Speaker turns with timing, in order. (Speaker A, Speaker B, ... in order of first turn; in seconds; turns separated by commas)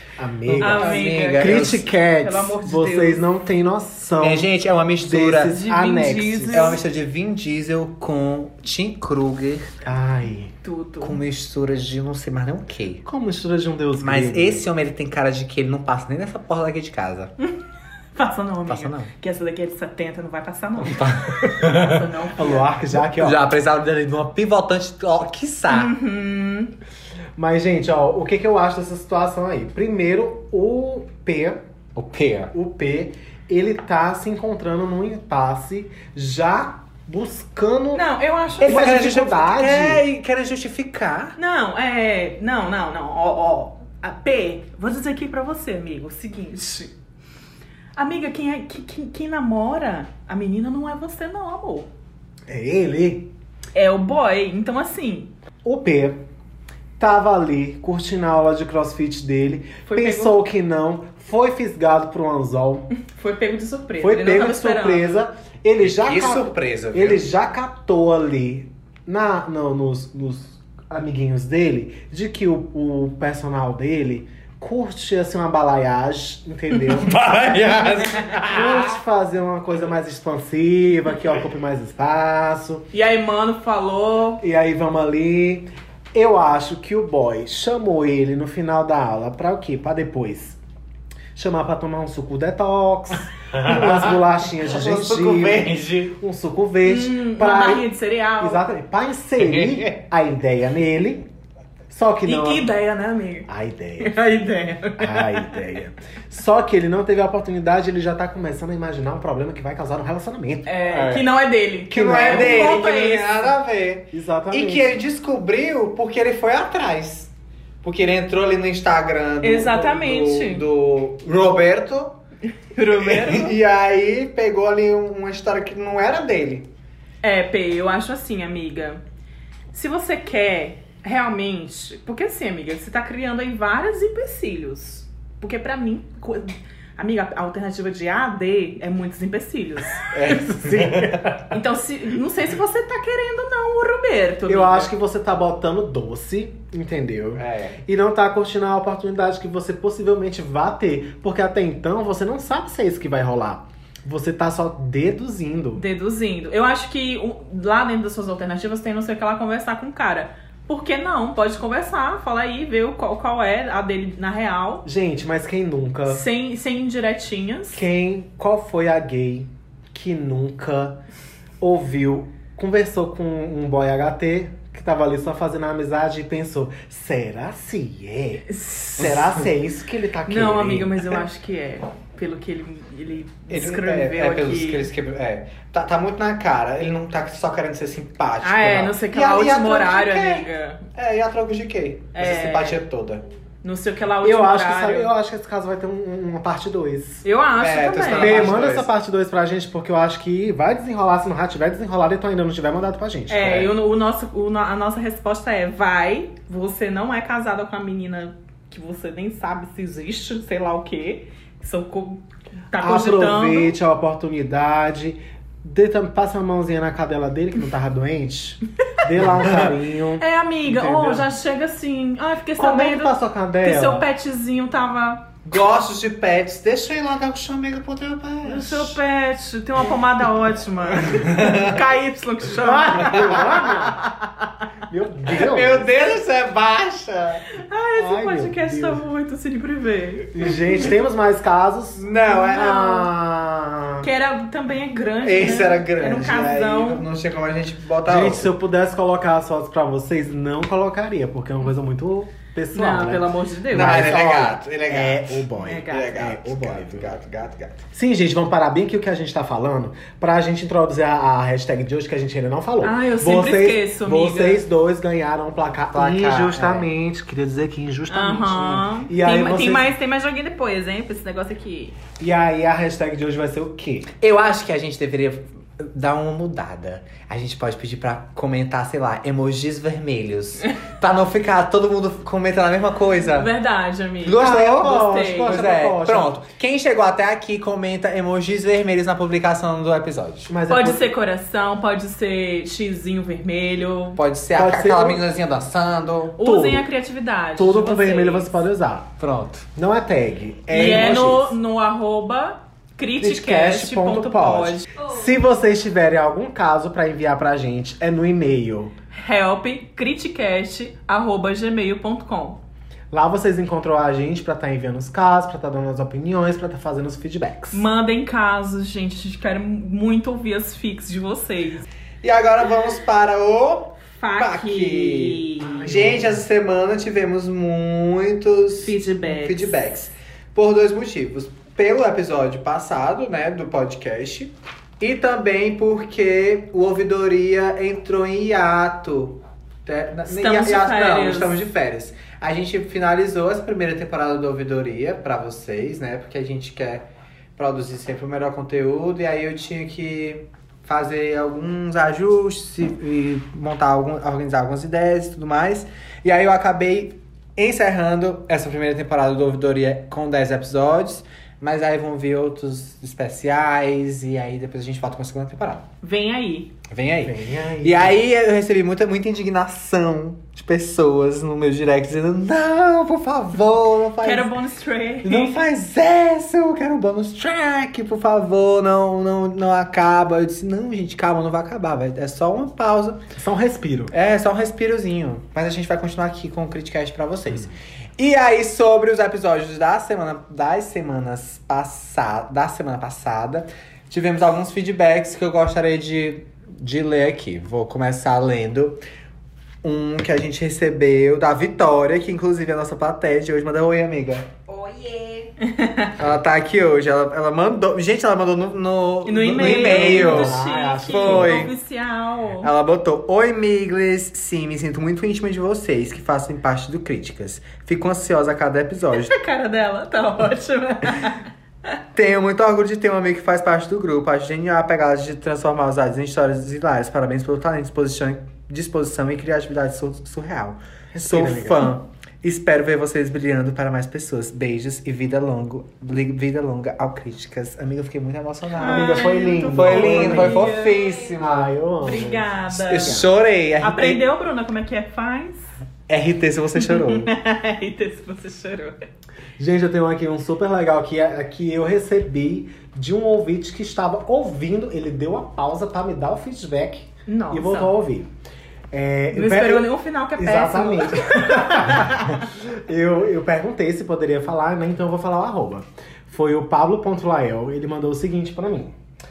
Speaker A: 0.2-6.8, Speaker B: 0.5-1.9, Speaker C: 0.6-3.2, Speaker B: 4.2-5.6, Speaker C: 5.5-6.8, Speaker B: 6.5-9.7, Speaker A: 9.8-10.5, Speaker C: 10.6-11.2, Speaker B: 11.0-13.0, Speaker A: 13.1-14.7, Speaker B: 14.0-17.3, Speaker C: 18.1-22.7, Speaker B: 18.7-19.1, Speaker B: 20.9-22.0, Speaker A: 22.4-23.5, Speaker B: 23.1-25.9, Speaker C: 25.7-26.7, Speaker A: 27.4-31.6, Speaker B: 31.9-32.5, Speaker A: 32.5-38.1, Speaker C: 37.9-39.2, Speaker A: 38.6-40.0, Speaker B: 38.6-41.4, Speaker C: 41.4-46.9, Speaker C: 48.0-51.9, Speaker A: 52.5-53.3, Speaker C: 53.7-55.3, Speaker A: 55.6-56.2, Speaker A: 57.0-62.9, Speaker C: 59.9-60.4, Speaker C: 63.0-65.3, Speaker A: 64.0-77.1, Speaker B: 65.8-67.2, Speaker B: 77.0-79.0, Speaker A: 78.5-82.9, Speaker C: 82.9-84.4, Speaker A: 84.4-90.6, Speaker A: 91.3-101.3, Speaker B: 93.5-96.2, Speaker C: 96.8-98.6, Speaker B: 99.4-100.0, Speaker A: 101.9-102.7, Speaker C: 102.3-105.5, Speaker A: 103.5-104.2, Speaker A: 105.0-110.7, Speaker C: 110.7-113.5, Speaker B: 110.9-111.3, Speaker B: 111.9-117.3, Speaker A: 111.9-112.8, Speaker A: 114.1-114.9, Speaker B: 117.8-122.2, Speaker C: 119.4-120.6, Speaker C: 122.8-123.6, Speaker B: 122.9-126.7, Speaker C: 127.2-129.0, Speaker C: 129.7-140.1, Speaker B: 140.1-141.2, Speaker A: 140.2-141.4, Speaker C: 141.5-144.9, Speaker A: 144.5-155.8, Speaker B: 147.4-147.8, Speaker C: 155.8-164.9, Speaker A: 164.8-166.3, Speaker C: 166.1-167.8, Speaker A: 167.7-171.0, Speaker A: 171.6-181.2, Speaker C: 178.5-179.1, Speaker C: 180.3-184.9, Speaker B: 183.5-193.2, Speaker C: 188.4-190.8, Speaker C: 192.1-192.8, Speaker C: 193.6-195.1, Speaker A: 194.2-197.2, Speaker C: 197.2-198.6, Speaker B: 197.6-198.9, Speaker A: 198.1-203.7, Speaker C: 203.3-213.8, Speaker A: 212.8-221.3, Speaker C: 220.2-225.3, Speaker A: 222.6-224.1, Speaker B: 225.5-229.0, Speaker C: 228.4-234.1, Speaker B: 231.2-231.7, Speaker A: 232.6-234.0, Speaker A: 234.9-235.9, Speaker B: 235.4-237.4, Speaker C: 237.6-240.5, Speaker A: 238.0-239.0, Speaker A: 240.3-244.1, Speaker B: 242.0-242.9, Speaker C: 242.4-243.1, Speaker C: 244.0-247.1, Speaker B: 245.2-248.5, Speaker A: 248.1-257.1, Speaker C: 252.8-254.1, Speaker B: 253.7-257.9, Speaker C: 255.6-256.1, Speaker A: 257.9-269.9, Speaker C: 262.8-264.6, Speaker B: 265.9-266.9, Speaker C: 268.1-272.0, Speaker A: 272.2-274.1, Speaker B: 274.2-283.5, Speaker C: 283.4-285.6, Speaker B: 284.2-290.5, Speaker A: 284.4-286.4, Speaker A: 290.4-291.1, Speaker C: 290.7-294.2, Speaker B: 294.2-296.4, Speaker A: 294.5-295.2, Speaker C: 296.4-298.6, Speaker A: 296.4-296.9, Speaker A: 297.6-299.1, Speaker B: 299.2-299.7, Speaker A: 299.8-301.6, Speaker C: 300.7-304.9, Speaker B: 300.7-301.3, Speaker A: 303.2-308.9, Speaker C: 309.2-312.6, Speaker A: 313.1-317.9, Speaker C: 317.7-321.9, Speaker B: 322.2-365.9, Speaker C: 324.1-325.9, Speaker A: 325.8-326.4, Speaker C: 328.8-329.8, Speaker C: 340.3-341.6, Speaker C: 366.0-366.8, Speaker B: 366.9-374.5, Speaker A: 367.2-368.2, Speaker C: 374.2-375.6, Speaker B: 375.2-383.2, Speaker A: 383.4-384.1, Speaker B: 384.1-399.0, Speaker B: 399.8-404.5, Speaker C: 405.6-406.1, Speaker B: 406.2-411.7, Speaker C: 409.2-412.7, Speaker A: 409.6-411.7, Speaker B: 412.6-419.4, Speaker C: 419.3-421.4, Speaker B: 422.1-441.8, Speaker A: 431.1-431.9, Speaker C: 438.7-441.3, Speaker A: 438.8-443.3, Speaker C: 442.0-443.2, Speaker B: 442.9-444.2, Speaker C: 443.8-445.7, Speaker B: 446.1-447.3, Speaker C: 446.8-449.0, Speaker A: 449.6-458.3, Speaker C: 457.3-458.0, Speaker A: 458.9-468.9, Speaker C: 459.3-462.4